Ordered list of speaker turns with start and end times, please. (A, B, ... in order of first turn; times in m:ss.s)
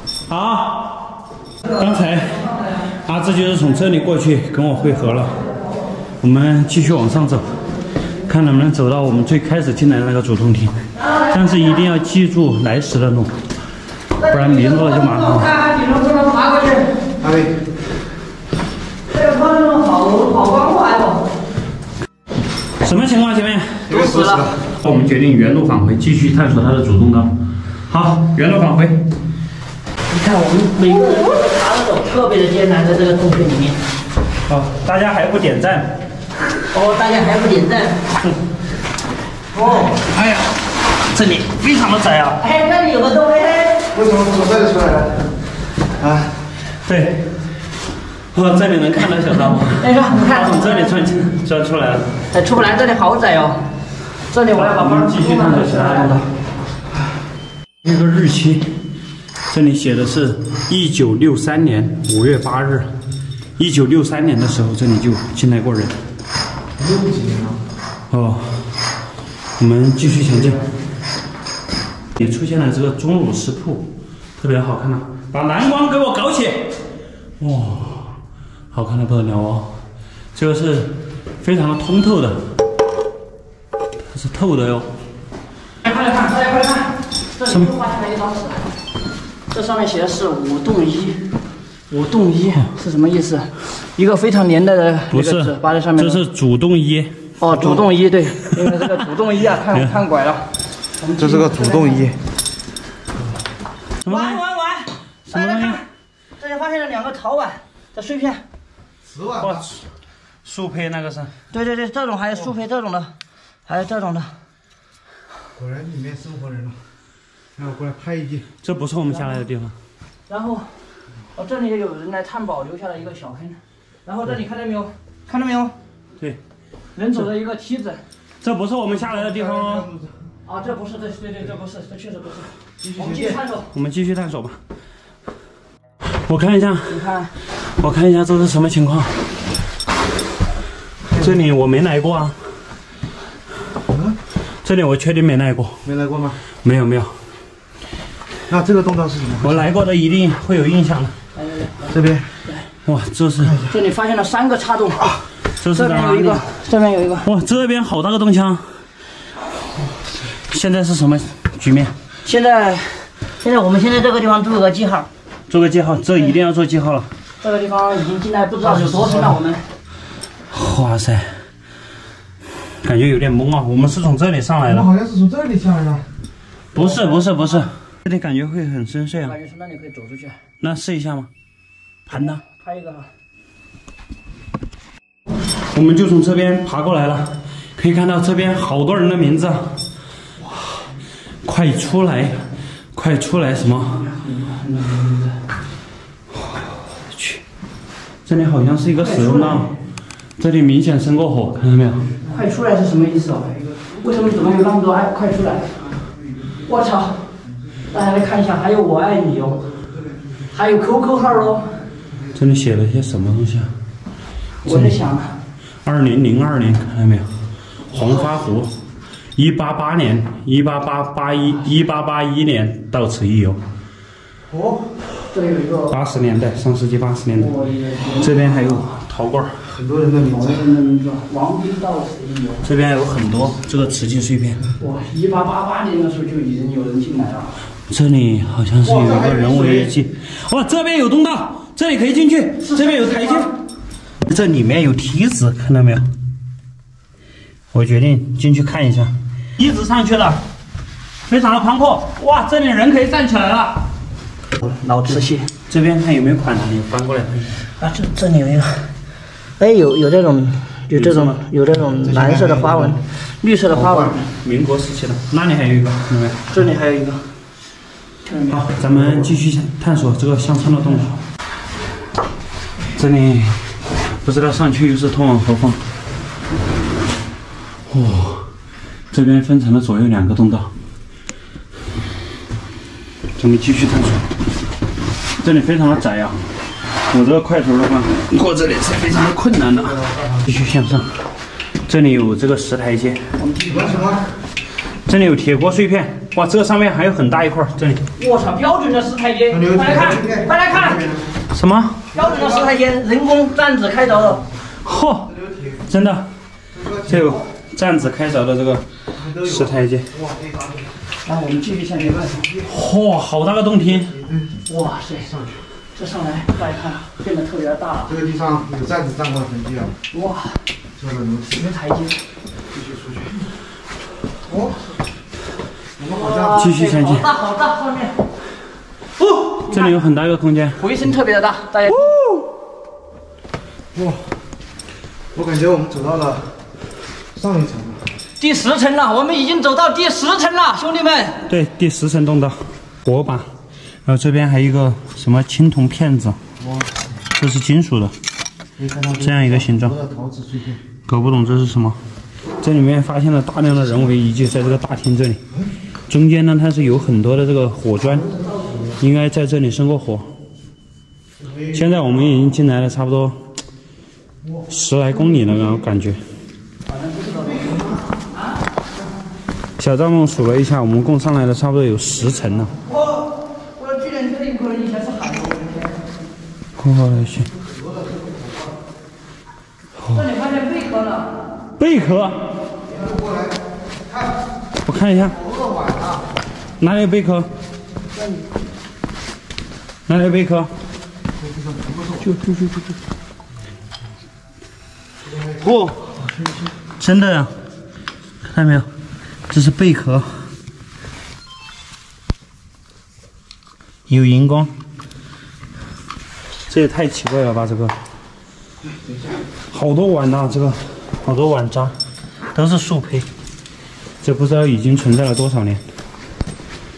0:00.3-0:05.4 A
0:06.2-0:07.6 A
0:08.2-0:13.4 A
0:14.2-0:17.0 B
0:14.3-0:15.5 A
0:17.2-0:17.6 C
0:19.1-0:21.3 B
0:22.8-0:24.0 A
0:23.9-0:24.6 C
0:23.9-0:24.4 B
0:24.7-0:29.0 A
0:30.1-0:33.8 B
0:34.5-0:36.0 A
0:36.7-0:38.2 B
0:39.5-0:40.0 C
0:40.0-0:40.4 A
0:41.2-0:42.4 A
0:42.4-0:43.9 B
0:43.9-0:45.2 C
0:46.0-0:46.3 C
0:46.8-0:47.3 A
0:48.3-0:52.2 A
0:49.7-0:51.0 B
0:52.3-0:53.6 B
0:54.3-0:56.2 B
0:54.5-0:56.3 A
0:57.8-0:58.8 A
0:59.5-1:02.9 A
1:03.6-1:06.0 A
1:06.8-1:07.6 C
1:08.1-1:08.8 A
1:09.6-1:10.6 A
1:12.1-1:16.8 A
1:17.4-1:18.2 A
1:18.7-1:19.8 A
1:20.3-1:22.5 A
1:24.1-1:24.9 A
1:25.8-1:28.7 B
1:27.5-1:27.7 A
1:29.5-1:31.3 B
1:31.9-1:36.2 B
1:35.1-1:37.3 A
1:37.4-1:42.0 B
1:38.4-1:39.0 A
1:41.2-1:42.2 C
1:44.0-1:44.4 A
1:44.0-1:45.8 B
1:45.3-1:45.8 A
1:46.4-1:48.4 B
1:49.1-1:49.6 C
1:49.4-1:49.8 A
1:50.4-1:51.3 A
1:51.5-1:53.1 B
1:53.6-1:54.3 B
1:55.6-1:56.8 C
1:57.6-1:58.4 C
1:58.6-1:59.7 A
2:00.3-2:00.7 B
2:01.3-2:05.7 B
2:07.0-2:08.0 B
2:08.4-2:09.9 A
2:09.1-2:10.2 C
2:10.4-2:13.7 B
2:12.8-2:13.4 C
2:13.7-2:14.6 A
2:16.0-2:19.3 A
2:16.9-2:17.3 B
2:21.1-2:22.4 A
2:23.9-2:24.2 C
2:24.6-2:25.9 A
2:25.8-2:26.4 C
2:26.5-2:27.2 A
2:28.5-2:29.6 C
2:29.4-2:31.1 A
2:31.4-2:31.9 B
2:31.9-2:32.3 C
2:32.8-2:33.6 A
2:33.7-2:35.2 B
2:35.6-2:36.4 A
2:35.7-2:37.3 B
2:37.2-2:38.7 A
2:40.5-2:41.9 A
2:42.2-2:45.1 B
2:45.5-2:47.1 A
2:47.4-2:49.6 B
2:50.5-2:51.4 A
2:52.6-2:54.9 A
2:54.7-2:56.1 C
2:56.7-2:59.4 A
2:59.2-3:00.4 B
3:00.6-3:01.3 A
3:02.1-3:02.4 A
3:02.1-3:03.1 B
3:05.7-3:09.8 A
3:11.4-3:14.0 A
3:13.9-3:15.4 B
3:16.3-3:17.4 A
3:18.2-3:19.7 A
3:19.0-3:19.7 B
3:20.4-3:22.1 A
3:22.3-3:25.8 B
3:26.6-3:27.2 B
3:27.9-3:29.7 B
3:30.5-3:31.8 B
3:32.3-3:33.7 A
3:34.6-3:35.4 B
3:34.6-3:35.0 A
3:35.8-3:37.3 A
3:37.9-3:38.8 A
3:39.4-3:43.6 A
3:44.5-3:44.9 C
3:45.3-3:46.0 B
3:45.9-3:47.5 A
3:47.3-3:48.8 B
3:48.1-3:49.6 A
3:49.6-3:50.6 C
3:50.2-3:52.6 B
3:52.6-3:54.6 A
3:54.8-3:57.6 B
3:57.9-4:03.5 A
3:58.8-3:59.9 C
4:02.7-4:03.5 B
4:04.2-4:06.1 A
4:07.7-4:10.4 A
4:11.3-4:13.8 A
4:14.6-4:15.5 B
4:15.7-4:17.6 A
4:17.8-4:18.9 B
4:19.6-4:24.3 B
4:20.9-4:21.4 A
4:22.0-4:23.0 C
4:24.0-4:26.6 A
4:26.5-4:27.2 B
4:28.2-4:28.7 B
4:28.5-4:31.2 A
4:32.9-4:35.8 A
4:37.9-4:38.5 A
4:39.1-4:40.7 A
4:43.3-4:44.3 A
4:45.4-4:51.3 A
4:50.0-4:50.4 C
4:51.8-4:53.3 A
4:53.4-4:54.2 B
4:53.7-4:54.2 C
4:55.0-4:58.0 A
4:58.2-5:01.2 B
4:59.5-5:01.3 C
5:01.5-5:02.0 A
5:02.1-5:02.6 C
5:02.1-5:04.4 B
5:04.8-5:06.3 A
5:05.3-5:05.8 C
5:06.7-5:07.2 C
5:07.0-5:08.9 A
5:09.2-5:10.9 C
5:09.4-5:10.1 A
5:11.2-5:12.4 B
5:12.1-5:12.7 C
5:12.6-5:14.1 A
5:14.1-5:14.5 C
5:14.7-5:15.3 B
5:15.2-5:15.6 C
5:15.9-5:18.1 B
5:18.1-5:19.9 C
5:20.1-5:20.6 B
5:21.0-5:21.6 C
5:21.5-5:22.2 B
5:22.7-5:23.5 C
5:24.5-5:24.7 C
5:26.0-5:26.6 C
5:26.1-5:28.2 B
5:26.5-5:27.3 A
5:29.2-5:30.0 B
5:29.6-5:30.8 A
5:30.8-5:32.2 B
5:31.9-5:32.4 A
5:33.9-5:34.2 C
5:35.3-5:36.5 C
5:37.3-5:38.0 C
5:38.4-5:41.4 B
5:41.5-5:43.5 A
5:44.0-5:46.4 A
5:46.6-5:47.0 C
5:47.4-5:48.1 A
5:48.8-5:50.8 C
5:49.2-5:50.0 A
5:51.1-5:52.0 A
5:52.6-5:55.4 A
5:56.1-5:58.3 A
5:59.0-6:00.3 A
6:01.4-6:01.7 C
6:01.7-6:03.4 A
6:04.7-6:06.2 A
6:06.9-6:08.0 B
6:09.8-6:12.7 A
6:12.8-6:15.9 B
6:16.8-6:17.5 A
6:17.6-6:18.7 C
6:20.0-6:20.3 A
6:20.1-6:21.4 B
6:21.8-6:22.4 A
6:22.9-6:24.3 C
6:24.8-6:25.4 A
6:25.4-6:26.2 C
6:26.8-6:27.5 A
6:28.2-6:28.4 B
6:30.1-6:30.7 A
6:31.4-6:32.2 C
6:32.2-6:32.9 B
6:35.6-6:36.1 A
6:37.0-6:37.5 A
6:38.5-6:38.9 A
6:39.5-6:40.4 A
6:44.1-6:44.7 A
6:46.7-6:48.0 A
6:49.7-6:51.9 A
6:52.5-6:53.3 A
6:54.2-6:55.8 A